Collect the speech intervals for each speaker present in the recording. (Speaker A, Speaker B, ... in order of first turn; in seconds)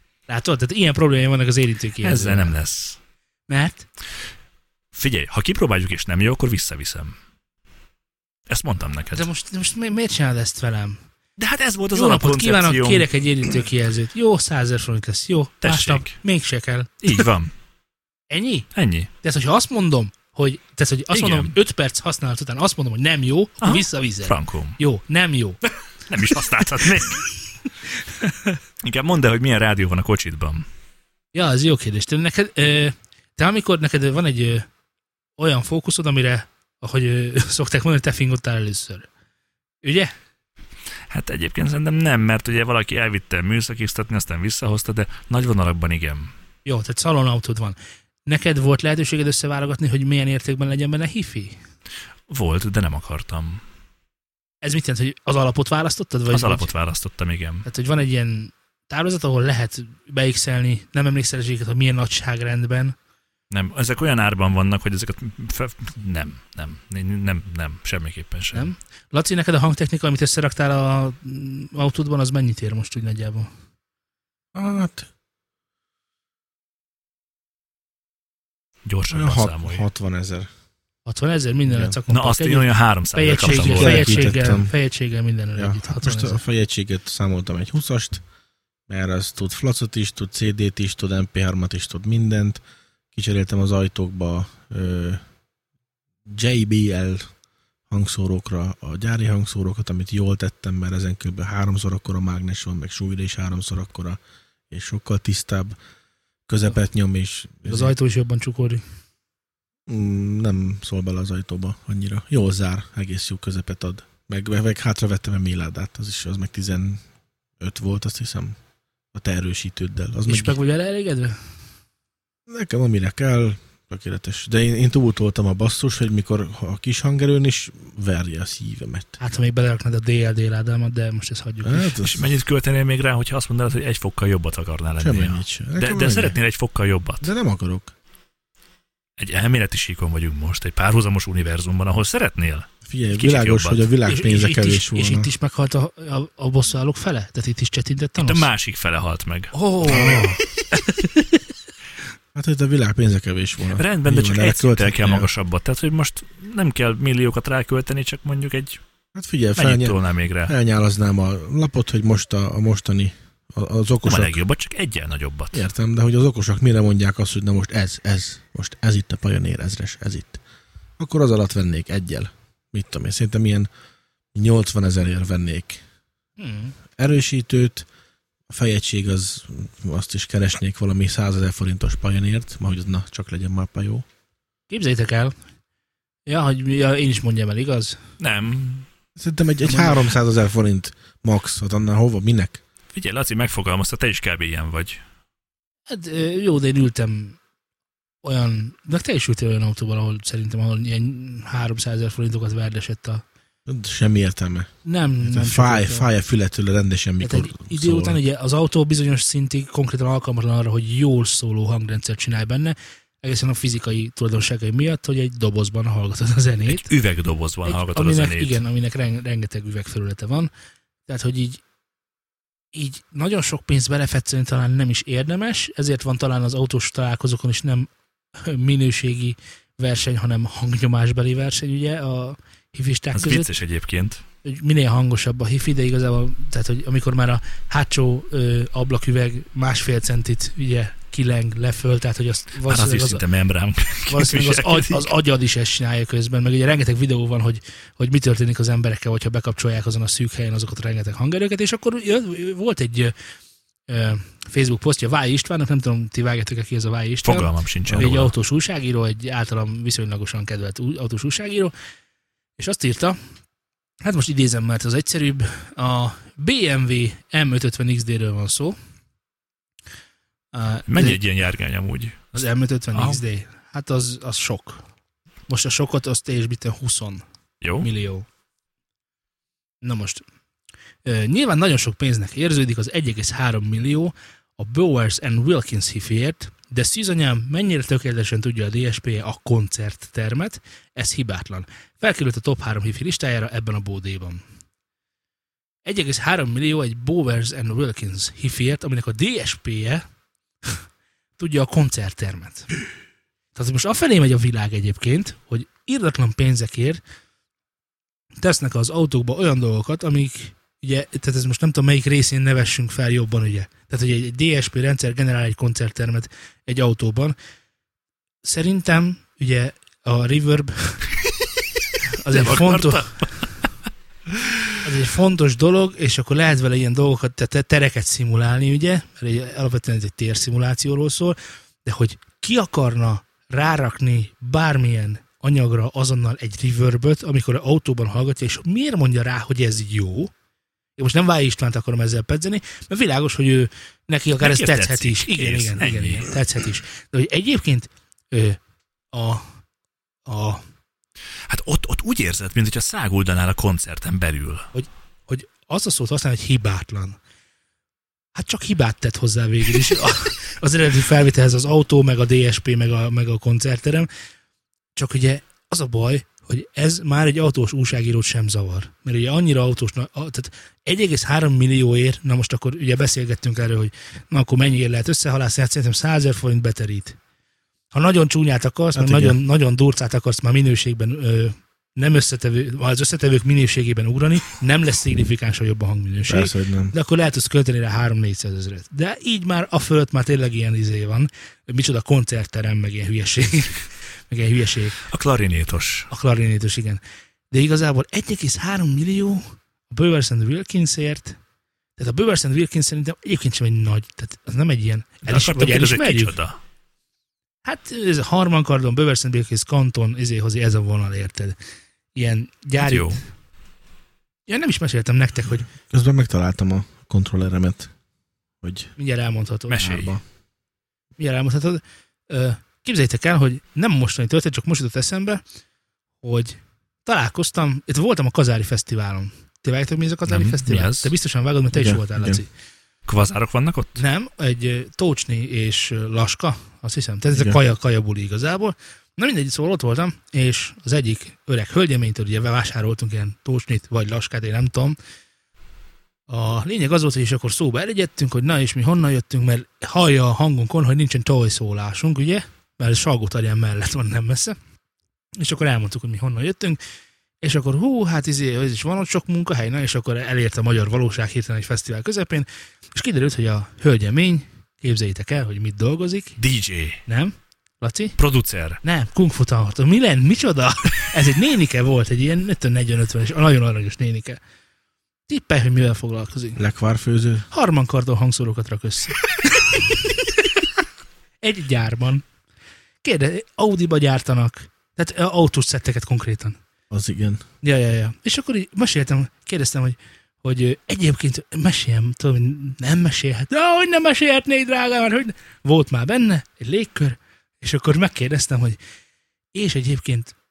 Speaker A: 0.3-2.5, 3.5-3.9, 9.1-11.0, 11.9-17.2, 18.3-18.7, 19.2-25.6, 26.6-27.1, 28.2-28.5, 31.3-34.7, 35.4-39.1, 39.8-40.1, 46.6-51.6, 54.6-56.7, 57.7-63.0, 68.5-73.5, 81.1-86.4, 107.7-108.8, 120.3-121.4, 129.2-131.9, 144.1-148.5, 149.5-151.4, 176.4-176.8, 184.7-185.3, 186.3-188.0, 189.7-190.1, 195.9-197.4, 198.2-203.2, 204.8-206.1, 207.2-216.9, 217.7-220.5, 221.1-221.6, 222.7-233.5, 234.4-243.2, 244.1-253.1, 253.9-261.7, 262.6-263.2, 264.0-268.8, 270.5-271.2, 272.3-274.8, 275.5-277.2, 277.8-278.3, 279.8-280.2, 281.1-294.4, 295.9-300.1, 301.4-302.7, 303.6-307.0, 308.4-317.4, 318.4-321.0, 322.1-323.2, 324.8-340.3, 341.0-348.6, 349.1-349.4, 350.3-350.6, 354.7-357.2, 358.4-364.1, 365.0-377.2, 377.9-395.0, 396.1-401.4, 402.0-406.4, 407.6-411.6, 412.1-413.2, 414.5-415.7, 419.0-420.0, 421.2-425.4, 426.2-432.5, 434.0-445.0, 446.3-454.6, 455.4-456.8, 457.4-466.4, 467.1-468.2, 468.8-474.4, 475.3-476.6, 477.5-480.3, 481.4-482.2, 483.0-486.6, 487.6-498.8, 499.5-500.3
Speaker B: 2.0-3.0, 4.9-7.2, 8.5-9.3, 11.4-13.1, 15.6-16.2, 17.0-17.5, 18.8-19.1, 21.1-21.5, 23.6-24.8, 26.1-27.3, 28.8-30.7, 41.1-46.3, 52.3-53.6, 56.3-57.7, 63.5-68.7, 78.9-79.8, 82.1-84.2, 132.0-137.3, 139.2-143.9, 148.2-149.5, 153.7-158.8, 159.6-160.5, 164.1-165.7, 188.2-188.9, 192.9-195.0, 216.7-218.6, 233.1-234.2, 242.7-245.1, 257.2-258.3, 270.9-272.3, 272.9-273.2, 277.6-277.9, 322.3-323.5, 324.4-324.7, 344.4-346.4, 351.5-354.7, 395.1-396.1, 405.3-406.6, 412.8-413.2, 419.7-420.2, 430.3-431.1, 433.1-434.0, 466.4-467.0, 468.2-468.8
Speaker C: 74.5-75.1, 79.1-80.5, 81.7-82.0, 83.5-84.7, 85.6-88.2, 88.9-92.6, 93.1-95.2, 96.3-97.3, 97.9-105.8, 106.5-107.9, 109.9-117.0, 117.6-118.6, 119.1-120.6, 122.5-129.2, 131.6-132.3, 135.0-136.4, 137.2-137.9, 142.9-145.3, 149.8-150.4, 152.3-155.3, 159.2-164.4, 165.5-170.4, 171.0-173.7, 174.3-175.8, 177.0-177.9, 178.5-184.1, 189.2-192.6, 203.7-204.7, 205.2-208.2, 378.9-379.4, 386.3-386.9, 415.9-417.9, 418.6-418.9, 419.8-420.2, 431.7-432.4, 437.3-437.6, 476.6-477.5, 486.9-487.4